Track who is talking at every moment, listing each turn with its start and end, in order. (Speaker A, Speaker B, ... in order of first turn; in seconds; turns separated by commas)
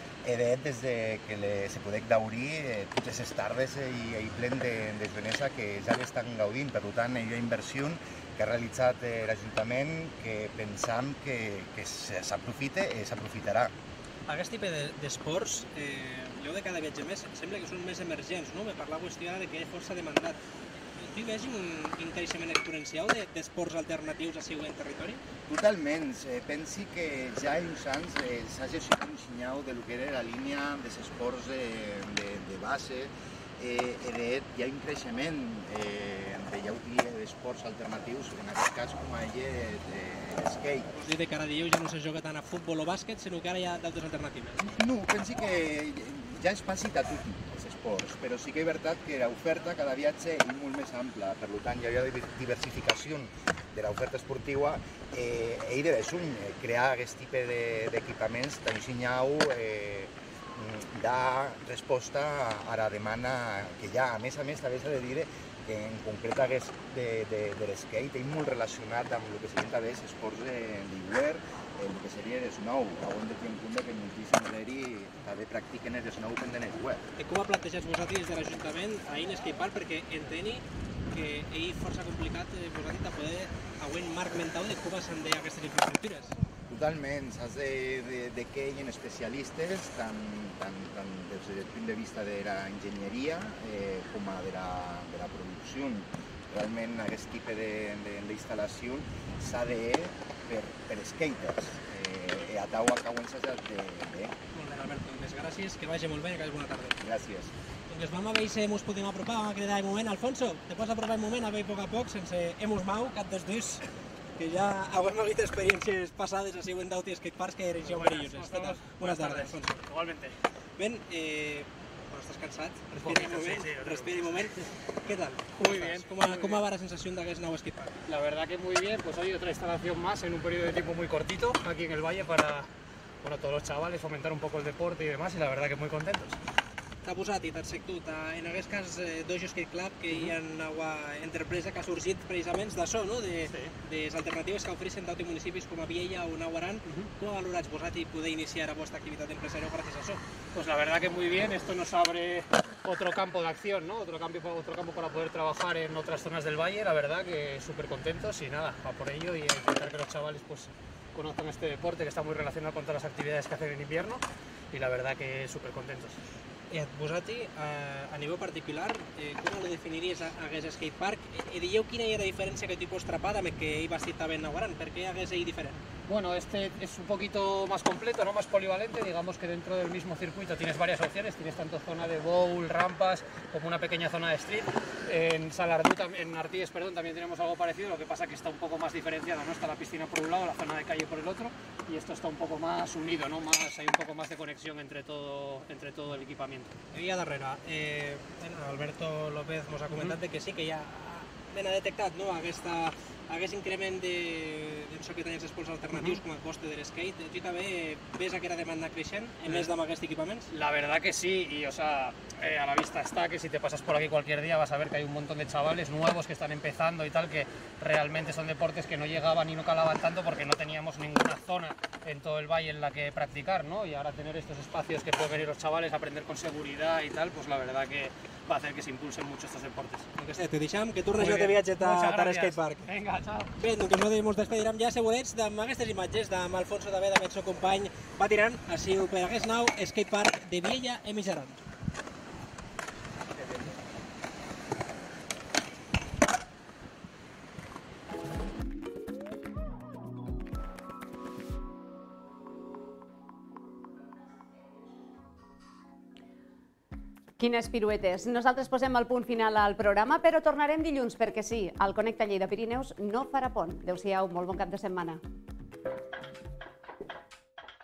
Speaker A: 0.2-13.7, Speaker B: 14.3-20.4, Speaker B: 20.9-25.2, Speaker A: 25.5-40.9, Speaker B: 40.9-44.7, Speaker A: 44.8-77.0, Speaker B: 77.2-86.3, Speaker A: 86.7-104.3, Speaker B: 104.5-107.0, Speaker A: 107.0-107.5, Speaker B: 107.9-113.8, Speaker B: 114.4-119.8, Speaker C: 117.8-120.3, Speaker B: 120.8-128.0, Speaker C: 122.9-124.5, Speaker C: 125.5-126.7, Speaker C: 128.1-132.7, Speaker C: 133.2-136.4, Speaker B: 137.0-150.2, Speaker C: 140.1-140.3, Speaker C: 143.5-143.7, Speaker C: 150.5-166.2, Speaker B: 166.7-175.8, Speaker C: 176.1-196.7, Speaker B: 196.9-210.5, Speaker C: 199.9-200.2, Speaker C: 205.9-206.2, Speaker C: 209.4-209.7, Speaker C: 210.5-230.1, Speaker B: 230.2-232.9, Speaker C: 231.1-233.5, Speaker B: 233.6-241.6, Speaker D: 257.4-265.2